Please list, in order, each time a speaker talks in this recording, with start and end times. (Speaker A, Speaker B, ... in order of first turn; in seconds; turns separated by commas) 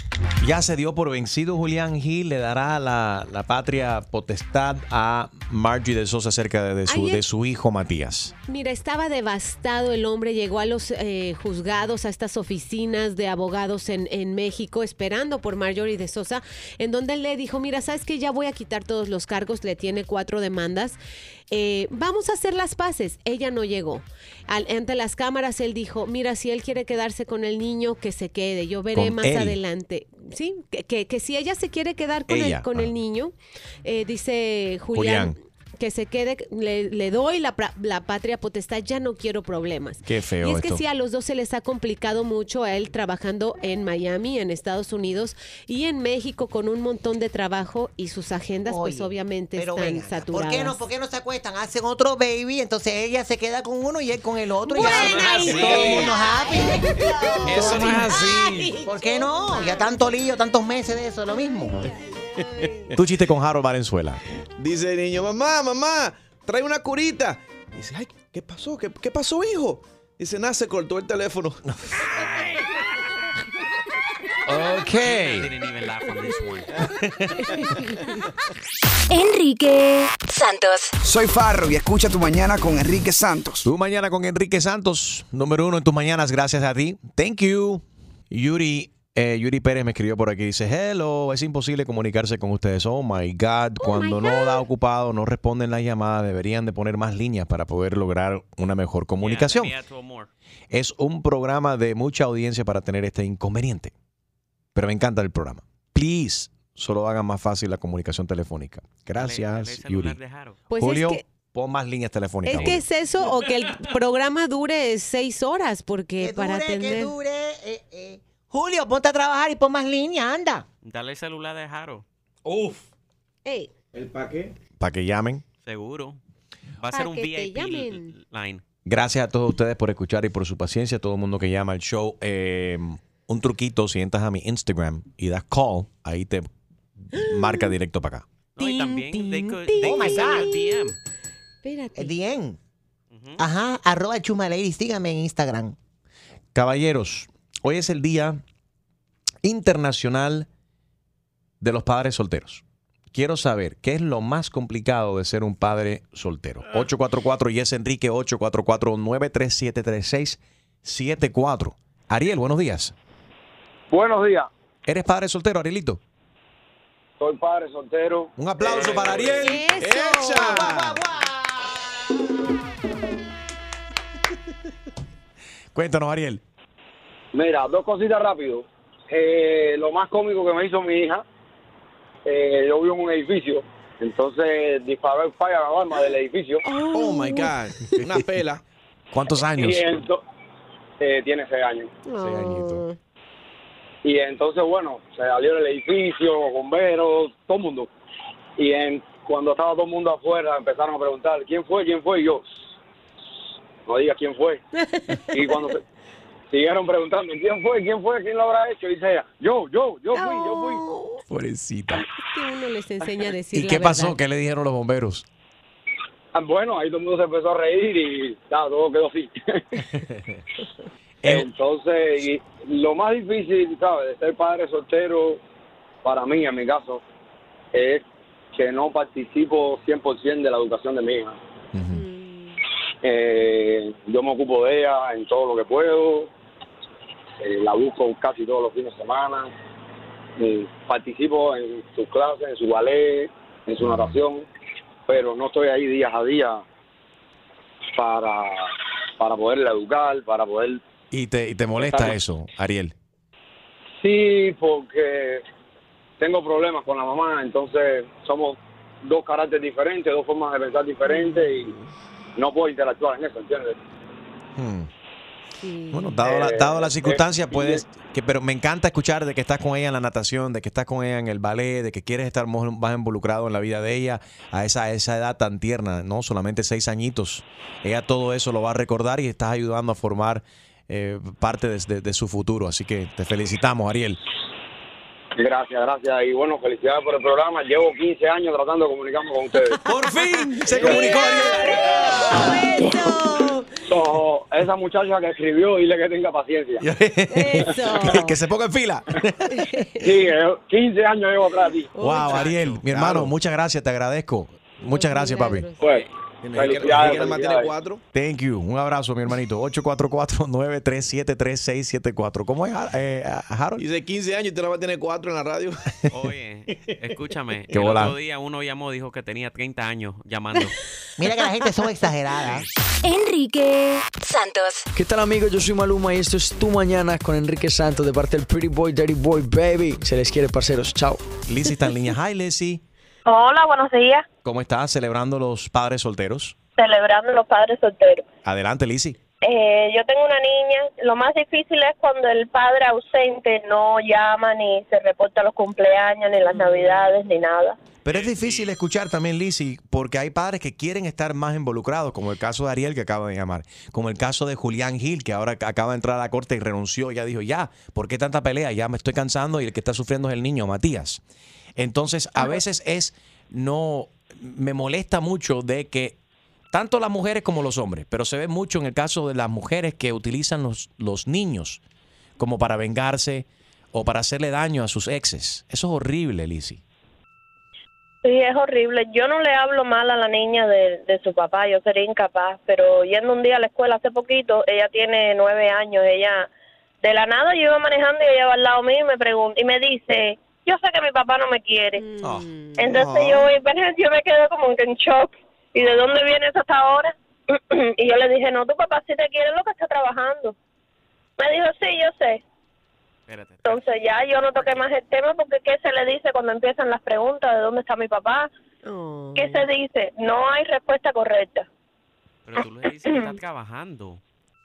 Speaker A: 0.4-8.3, Speaker B: 6.9-7.2, Speaker B: 8.5-21.0, Speaker B: 21.5-33.3, Speaker A: 28.9-29.6, Speaker A: 32.3-32.9, Speaker B: 33.8-50.8, Speaker A: 34.9-35.3, Speaker A: 40.0-40.8, Speaker C: 48.6-58.3, Speaker B: 54.7-60.0, Speaker D: 54.8-56.1, Speaker E: 55.1-56.0, Speaker E: 57.5-58.7, Speaker C: 58.8-61.9, Speaker B: 61.7-62.9, Speaker A: 62.9-64.2, Speaker F: 64.6-71.6, Speaker A: 74.5-75.5, Speaker D: 75.0-76.9, Speaker B: 77.4-78.0, Speaker G: 79.1-80.9, Speaker H: 81.0-83.7, Speaker A: 83.6-99.7, Speaker B: 93.8-94.6, Speaker D: 99.2-100.3, Speaker A: 100.7-103.9, Speaker A: 104.7-110.2, Speaker D: 109.2-110.6, Speaker B: 110.7-111.2, Speaker A: 110.8-112.8, Speaker B: 112.4-117.1, Speaker C: 116.2-120.6, Speaker D: 120.8-122.0, Speaker E: 122.5-122.8, Speaker B: 123.4-123.7, Speaker A: 124.8-125.4, Speaker D: 125.7-126.2, Speaker D: 126.8-128.6, Speaker B: 126.9-128.1, Speaker A: 128.8-136.5, Speaker A: 137.1-138.2, Speaker B: 137.2-137.7, Speaker D: 138.6-140.9, Speaker B: 138.6-140.9, Speaker C: 139.8-140.6, Speaker B: 141.6-142.1, Speaker C: 141.9-142.6, Speaker D: 143.1-143.4, Speaker C: 143.4-145.7, Speaker A: 146.5-148.4, Speaker A: 149.4-150.5, Speaker A: 151.6-162.9, Speaker I: 163.9-164.5, Speaker A: 164.8-166.0, Speaker I: 167.2-169.4, Speaker A: 168.4-169.7, Speaker F: 168.7-169.2, Speaker B: 169.3-170.7, Speaker F: 169.8-170.8, Speaker C: 169.9-171.8, Speaker A: 175.7-176.4, Speaker I: 177.3-181.2, Speaker I: 182.2-186.6, Speaker B: 186.6-187.5, Speaker F: 186.9-188.6, Speaker A: 189.1-189.9, Speaker I: 189.6-190.2, Speaker I: 191.0-191.9, Speaker B: 192.0-193.0, Speaker A: 192.2-192.8, Speaker I: 194.0-197.9, Speaker I: 198.6-202.7, Speaker I: 203.8-204.6, Speaker I: 205.3-205.8, Speaker I: 206.5-210.8, Speaker B: 210.1-211.2, Speaker A: 211.3-212.0, Speaker B: 211.9-214.2, Speaker A: 213.5-215.2, Speaker I: 216.3-219.8, Speaker A: 221.2-221.5, Speaker I: 221.2-225.4, Speaker I: 226.0-227.0, Speaker I: 227.7-231.4, Speaker A: 231.7-232.0, Speaker B: 231.9-232.6, Speaker I: 233.0-236.3, Speaker I: 237.4-239.5, Speaker I: 240.4-244.4, Speaker A: 243.8-244.2, Speaker I: 245.1-246.6, Speaker I: 247.9-248.7, Speaker I: 249.2-250.8, Speaker A: 251.1-252.9, Speaker I: 251.8-252.1, Speaker I: 254.0-255.4, Speaker I: 256.2-261.7, Speaker B: 261.1-261.9, Speaker I: 262.4-263.8, Speaker A: 264.6-264.9, Speaker B: 265.6-266.2, Speaker A: 265.9-284.2, Speaker I: 266.2-267.8, Speaker I: 285.4-289.8, Speaker A: 289.9-292.6, Speaker I: 290.7-292.5, Speaker B: 290.7-293.7, Speaker F: 290.9-291.3, Speaker I: 293.9-296.8, Speaker A: 296.8-299.5, Speaker B: 297.3-298.4, Speaker B: 299.5-300.1, Speaker I: 300.0-301.9, Speaker B: 301.9-302.5, Speaker A: 302.0-305.7, Speaker D: 302.5-302.8, Speaker F: 302.9-303.3, Speaker B: 304.8-305.9, Speaker F: 306.4-308.0, Speaker I: 306.5-307.7, Speaker A: 308.1-313.8, Speaker F: 313.8-315.8, Speaker D: 316.1-320.8, Speaker A: 317.7-318.1, Speaker C: 321.2-322.6, Speaker G: 323.0-324.8, Speaker J: 324.9-331.2, Speaker A: 331.4-332.8, Speaker K: 333.2-334.2, Speaker A: 334.4-336.6, Speaker K: 336.8-338.3, Speaker A: 338.4-339.2, Speaker K: 339.4-347.8, Speaker B: 346.5-347.1, Speaker A: 348.0-361.2, Speaker D: 348.1-348.6, Speaker A: 361.8-366.2, Speaker A: 366.7-371.8, Speaker A: 372.4-376.8, Speaker K: 378.2-386.5, Speaker K: 387.0-392.0, Speaker B: 392.0-393.0, Speaker A: 392.2-393.4, Speaker K: 392.8-400.5, Speaker K: 401.4-402.4, Speaker D: 403.3-403.9, Speaker K: 403.6-408.5, Speaker D: 404.5-404.8, Speaker B: 408.8-409.6, Speaker K: 409.3-411.6, Speaker D: 412.4-414.2